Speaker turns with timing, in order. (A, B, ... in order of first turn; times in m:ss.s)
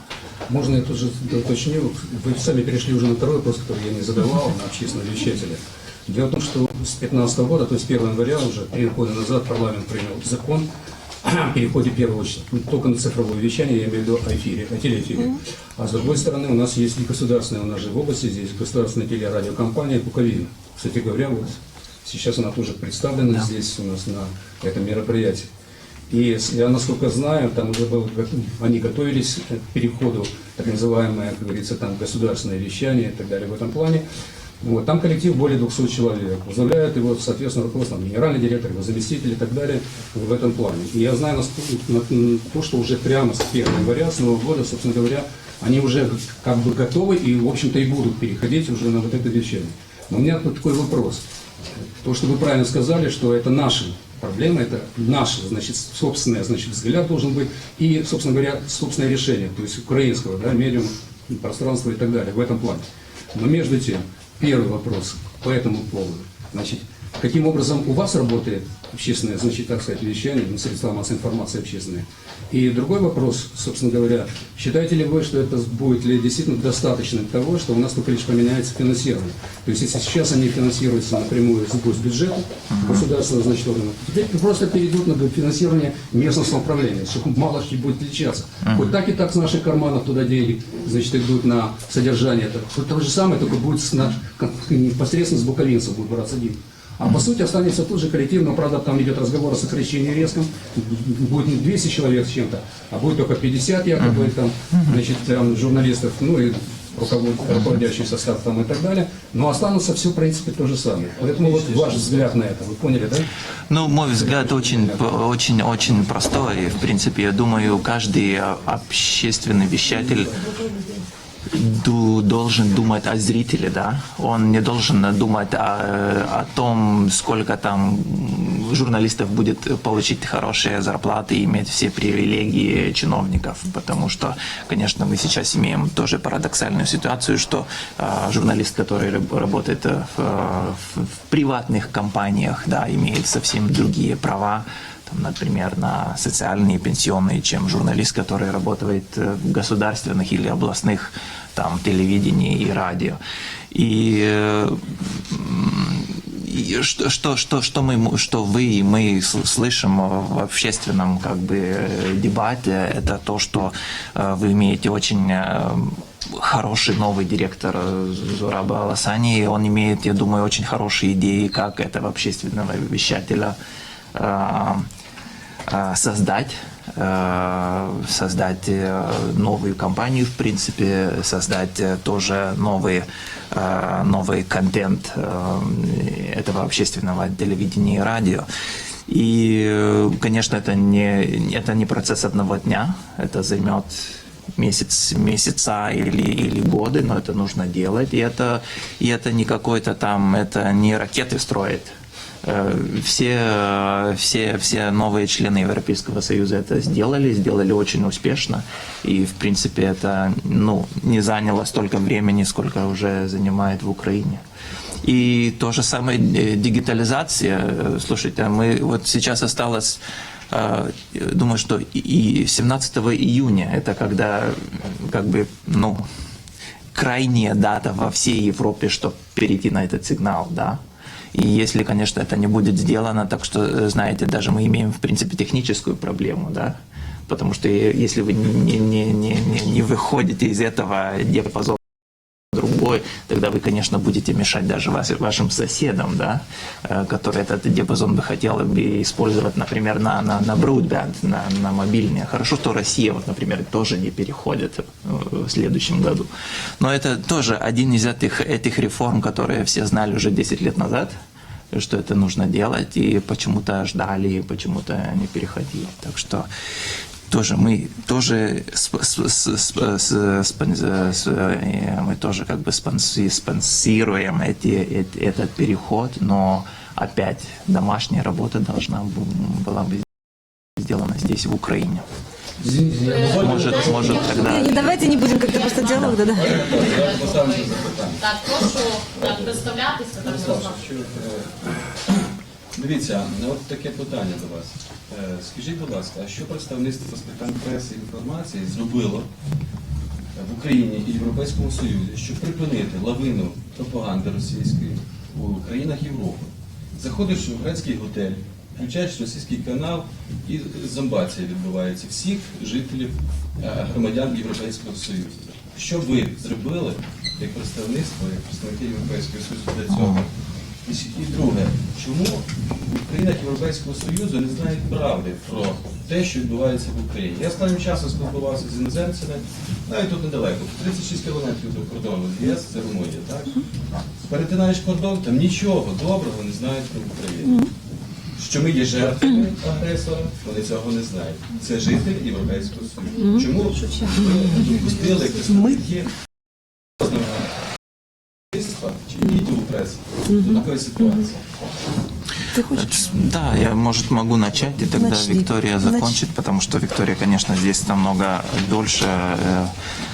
0:00.5-0:10.7 A
0:11.2-0:25.5 A
0:26.1-0:34.0 A
0:34.6-0:51.2 A
0:52.0-1:53.3 A
1:22.7-1:23.0 B
1:51.4-1:52.3 C
1:53.7-2:00.4 B
1:54.0-1:55.0 A
2:01.5-2:33.2 B
2:33.7-2:53.6 B
2:54.1-2:54.9 B
2:55.7-3:08.4 B
3:09.1-3:34.4 B
3:35.0-3:46.0 B
3:46.9-3:50.8 B
3:51.3-3:56.8 B
3:57.3-4:01.8 B
4:02.5-4:21.1 B
4:21.7-4:26.4 B
4:27.3-4:40.1 B
4:40.8-4:42.0 B
4:42.6-4:43.8 A
4:43.0-4:44.7 C
4:43.0-4:50.8 D
4:43.3-4:44.9 B
4:44.3-4:46.7 E
4:46.4-4:48.2 C
4:49.2-4:49.7 C
4:50.2-4:52.2 C
4:52.7-4:59.3 C
5:00.4-5:20.3 C
5:20.8-5:33.6 C
5:34.2-5:37.7 C
5:37.4-5:37.7 E
5:38.4-5:46.1 C
5:43.2-5:43.5 E
5:44.0-5:44.6 E
5:45.5-5:45.8 E
5:47.0-5:47.5 C
5:48.5-5:51.4 C
5:50.3-5:51.1 E
5:52.5-5:52.9 E
5:52.6-5:59.7 B
5:54.9-5:56.1 E